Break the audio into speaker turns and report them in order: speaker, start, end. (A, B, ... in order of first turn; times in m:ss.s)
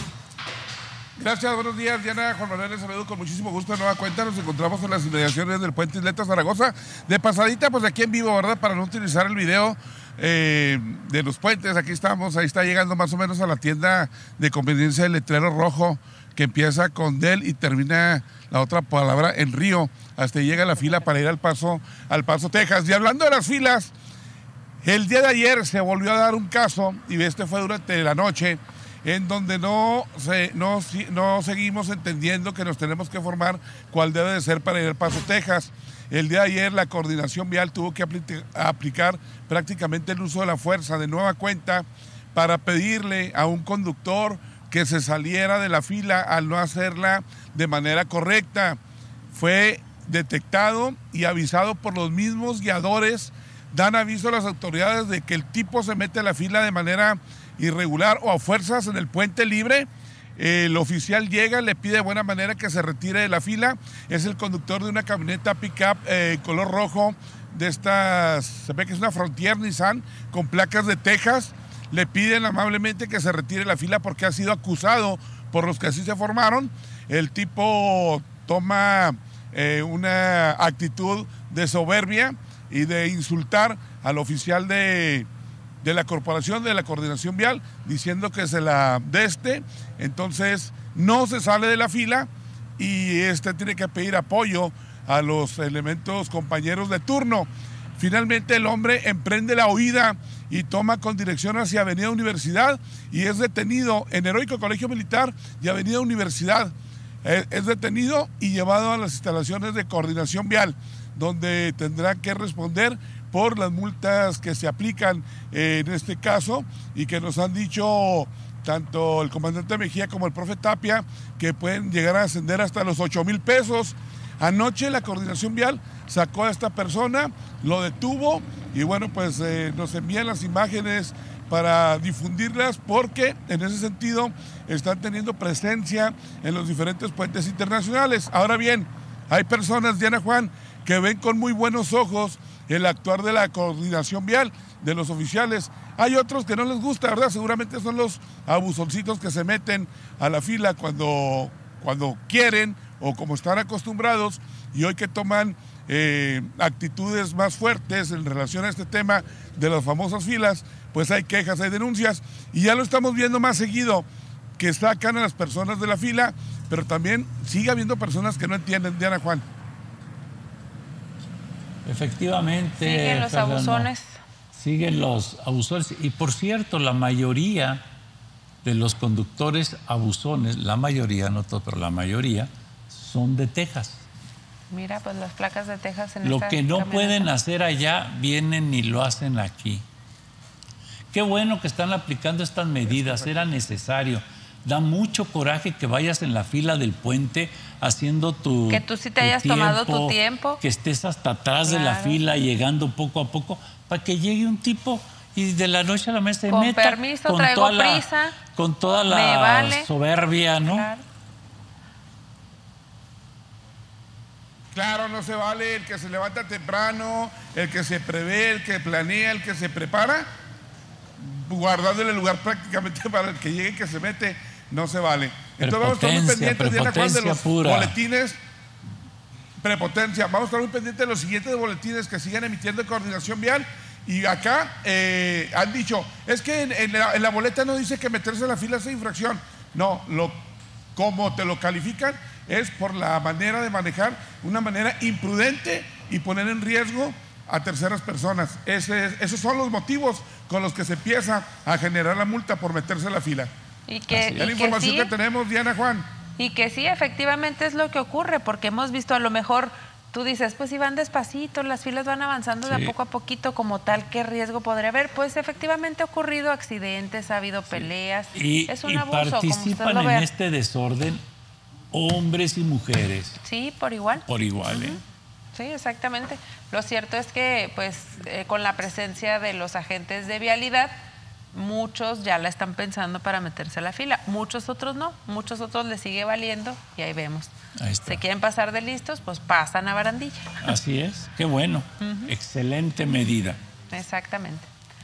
0:01.2-0:23.9 A
0:20.6-0:20.9 B
0:24.8-0:48.8 A
0:49.3-1:25.3 A
1:25.8-2:44.0 A
2:44.6-2:49.4 A
2:51.8-2:53.9 C
2:52.8-2:54.2 B
2:54.5-2:57.8 C
2:58.6-3:04.0 C
3:04.7-3:07.3 B
3:06.2-3:09.8 C
3:11.1-3:30.9 C
3:12.9-3:13.5 A
3:18.7-3:20.6 B
3:21.6-3:22.2 B
3:26.5-3:28.4 B
3:29.0-3:29.9 B
3:30.6-3:31.0 B
3:34.7-3:40.3 A
3:41.2-3:48.4 A
3:45.6-3:48.0 C
3:49.6-4:00.4 A
4:01.0-4:13.5 A
4:13.9-4:15.1 B
4:14.1-4:14.5 C
4:14.4-4:16.1 A
4:16.4-4:30.3 B
4:22.6-4:22.9 C
4:28.3-4:31.2 C
4:31.9-4:33.4 C
4:33.4-4:35.0 B
4:34.2-4:35.0 C
4:35.5-4:40.9 B
4:41.5-4:47.5 B
4:47.8-4:48.2 C
4:48.0-4:50.6 B
4:50.6-4:53.6 C
4:52.0-4:52.3 B
4:53.9-4:54.7 B